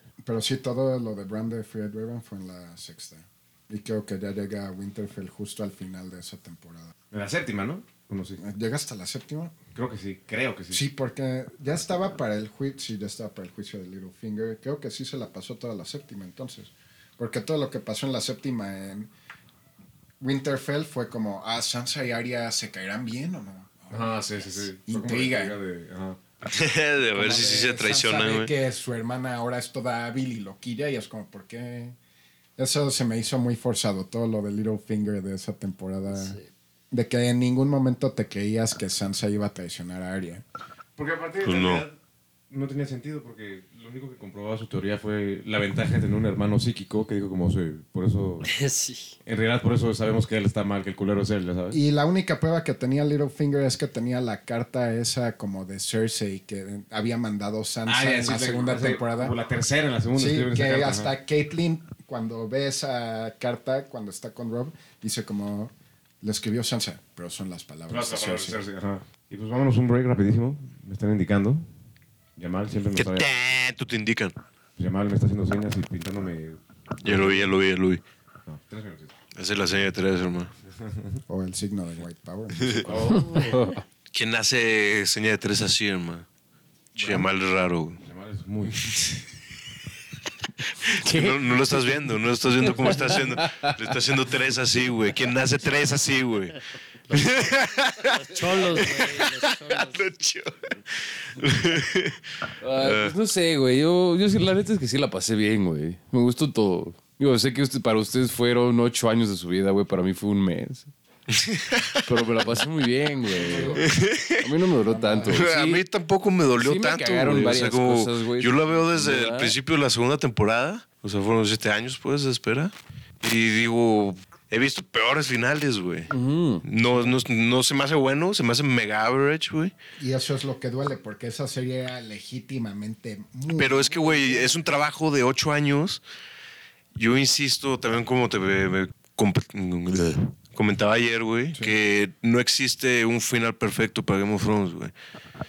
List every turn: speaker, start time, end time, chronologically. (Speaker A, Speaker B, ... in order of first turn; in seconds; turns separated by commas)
Speaker A: 0.2-6.9, Speaker B: 7.1-8.4, Speaker A: 8.4-9.6, Speaker B: 9.8-10.8, Speaker A: 10.7-19.1, Speaker A: 20.2-24.2, Speaker B: 23.9-26.2, Speaker A: 24.8-25.6, Speaker C: 26.4-28.5, Speaker A: 27.1-32.0, Speaker A: 32.6-36.4, Speaker D: 36.1-36.5, Speaker A: 36.9-40.4, Speaker B: 41.0-42.0, Speaker C: 41.4-41.9, Speaker B: 42.5-48.5, Speaker D: 48.5-49.1, Speaker B: 49.2-51.8, Speaker A: 51.7-59.4, Speaker B: 57.9-61.1, Speaker A: 60.1-68.6, Speaker B: 67.9-71.7, Speaker B: 72.4-73.3, Speaker C: 73.0-74.3, Speaker B: 74.8-77.5, Speaker C: 77.0-78.0, Speaker B: 78.5-79.1, Speaker C: 79.4-80.5, Speaker B: 80.7-81.2, Speaker A: 81.3-83.2, Speaker C: 82.6-82.9, Speaker B: 82.8-83.6, Speaker E: 83.2-83.8, Speaker C: 84.1-86.3, Speaker A: 87.0-87.3, Speaker C: 87.0-88.0, Speaker B: 88.0-88.8, Speaker C: 88.8-89.2, Speaker C: 90.8-102.2, Speaker E: 90.9-92.0, Speaker E: 92.6-94.0, Speaker D: 98.1-100.0, Speaker E: 102.6-110.9, Speaker C: 102.8-103.1, Speaker C: 111.3-112.2, Speaker E: 112.1-113.9, Speaker A: 113.4-113.9, Speaker B: 113.5-113.7, Speaker C: 113.7-114.5, Speaker E: 114.4-115.8, Speaker A: 114.9-115.5, Speaker C: 115.2-126.1, Speaker E: 116.6-119.5, Speaker E: 126.1-126.7, Speaker C: 126.7-129.7, Speaker A: 130.0-134.6, Speaker C: 133.6-136.0, Speaker C: 136.9-144.9